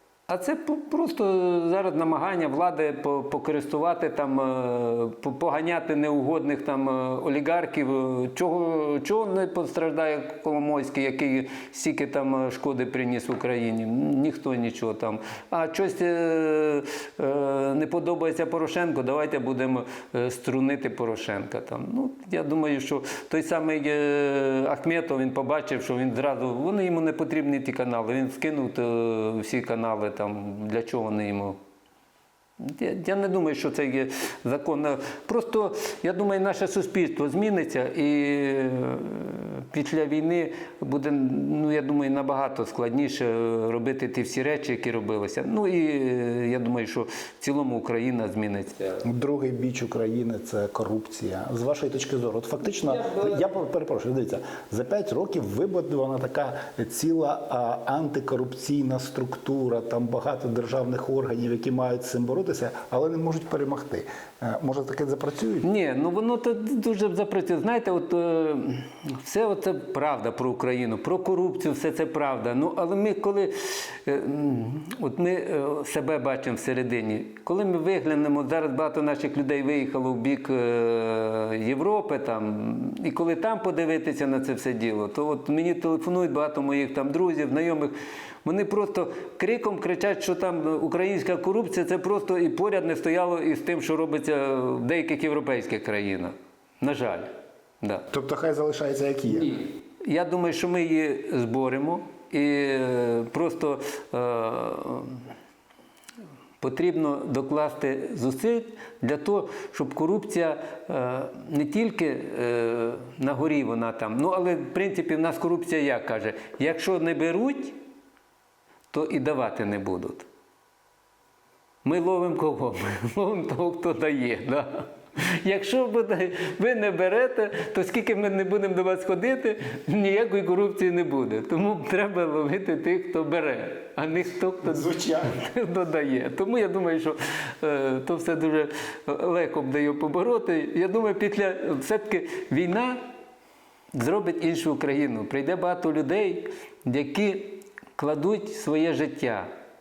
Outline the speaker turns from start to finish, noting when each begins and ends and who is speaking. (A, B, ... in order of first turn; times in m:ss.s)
0:00.3-0:31.6 A
0:32.6-0:49.0 A
0:49.0-1:05.6 B
0:52.6-0:53.5 A
1:05.6-1:38.0 A
1:38.1-1:39.6 B
1:39.4-1:45.2 A
1:46.6-1:57.8 A
1:58.9-2:00.2 A
2:01.8-2:23.0 A
2:14.6-2:15.4 B
2:23.9-2:29.5 A